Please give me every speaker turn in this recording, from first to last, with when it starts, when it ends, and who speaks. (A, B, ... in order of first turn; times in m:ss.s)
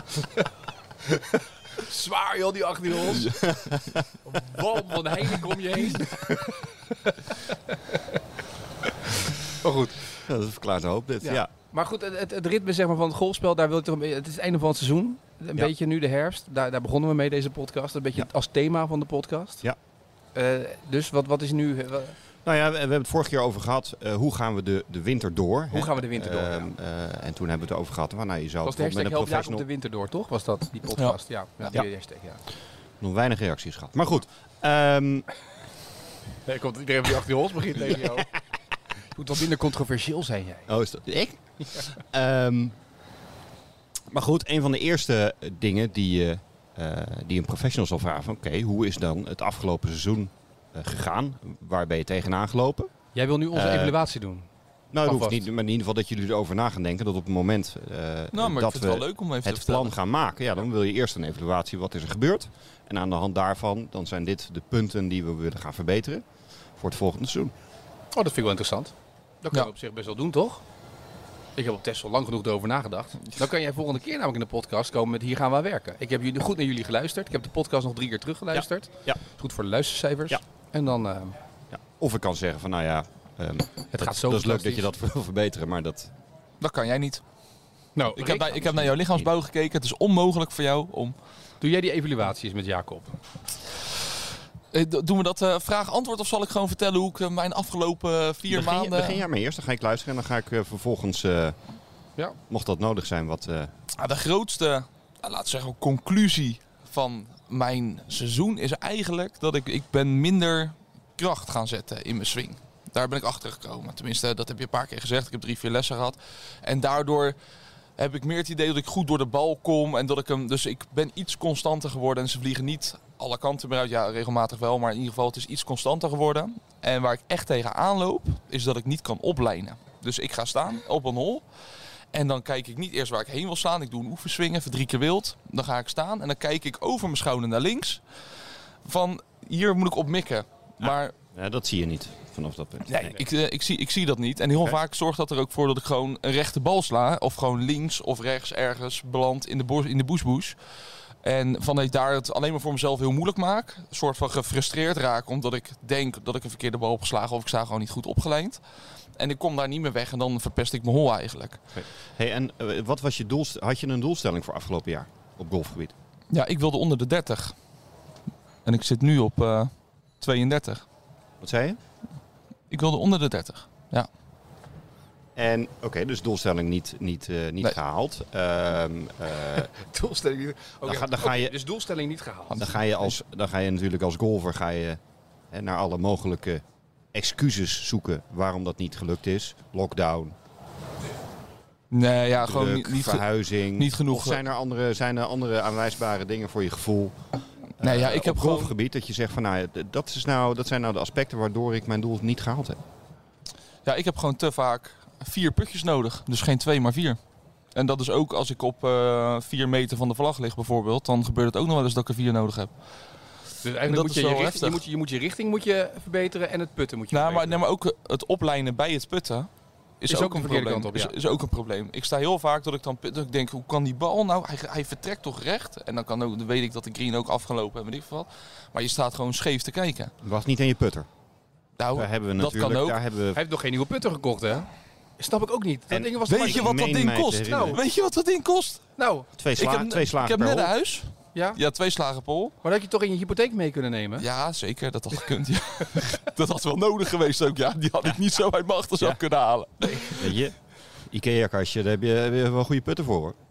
0:01.1-0:03.5 A
0:03.1-0:03.4 B
0:03.4-0:04.0 C
0:04.2-0:08.2 A
0:09.6-0:10.1 A
0:10.3-0:11.5 C
0:11.2-0:19.6 A
0:20.3-0:22.2 A
0:22.4-0:29.6 C
0:25.7-0:26.7 A
0:28.6-0:32.4 A
0:31.0-0:31.8 B
0:33.0-0:35.2 C
0:36.4-0:38.3 A
0:39.1-0:40.7 A
0:40.7-0:42.7 C
0:44.1-0:52.9 C
0:53.1-0:54.5 A
0:53.5-0:54.0 C
0:54.9-1:06.2 C
0:55.0-0:55.4 A
0:58.3-0:59.9 B
1:06.8-1:07.5 C
1:08.1-1:10.6 A
1:11.6-1:21.4 A
1:18.5-1:19.2 C
1:21.7-1:26.1 C
1:23.9-1:24.9 A
1:26.6-1:27.2 B
1:28.0-1:28.8 A
1:28.2-1:31.1 B
1:28.9-1:29.3 C
1:31.6-1:33.2 A
1:34.7-1:39.2 B
1:38.5-1:41.6 C
1:42.5-1:43.7 C
1:43.9-1:57.4 B
1:58.0-2:11.4 B
2:12.1-2:21.1 B
2:20.8-2:23.2 C
2:22.9-2:38.6 B
2:39.2-2:41.6 B
2:41.7-2:45.9 C
2:46.3-2:47.5 B
2:48.6-2:50.8 B
2:51.4-2:51.8 C
2:52.7-2:54.1 B
2:55.4-2:59.7 C
2:59.6-3:02.6 A
3:00.8-3:01.5 C
3:02.5-3:03.1 B
3:02.6-3:06.6 C
3:07.1-3:10.4 C
3:11.9-3:14.4 B
3:12.4-3:17.2 C
3:17.8-3:22.8 C
3:17.8-3:18.7 B
3:23.8-3:27.2 B
3:27.7-3:32.8 B
3:33.6-3:37.6 A
3:33.8-3:34.8 B
3:37.1-3:39.5 B
3:40.0-3:50.1 B
3:40.1-3:41.1 A
3:50.2-3:51.1 C
3:51.8-3:53.0 B
3:51.9-3:53.4 C
3:53.3-3:56.7 A
3:55.9-3:57.8 C
3:56.3-3:58.9 B
3:57.5-3:57.8 A
3:59.0-3:59.3 A
3:59.4-4:00.7 C
3:59.6-4:02.5 B
4:01.3-4:01.6 A
4:02.6-4:04.2 A
4:04.2-4:10.4 B
4:10.2-4:13.4 C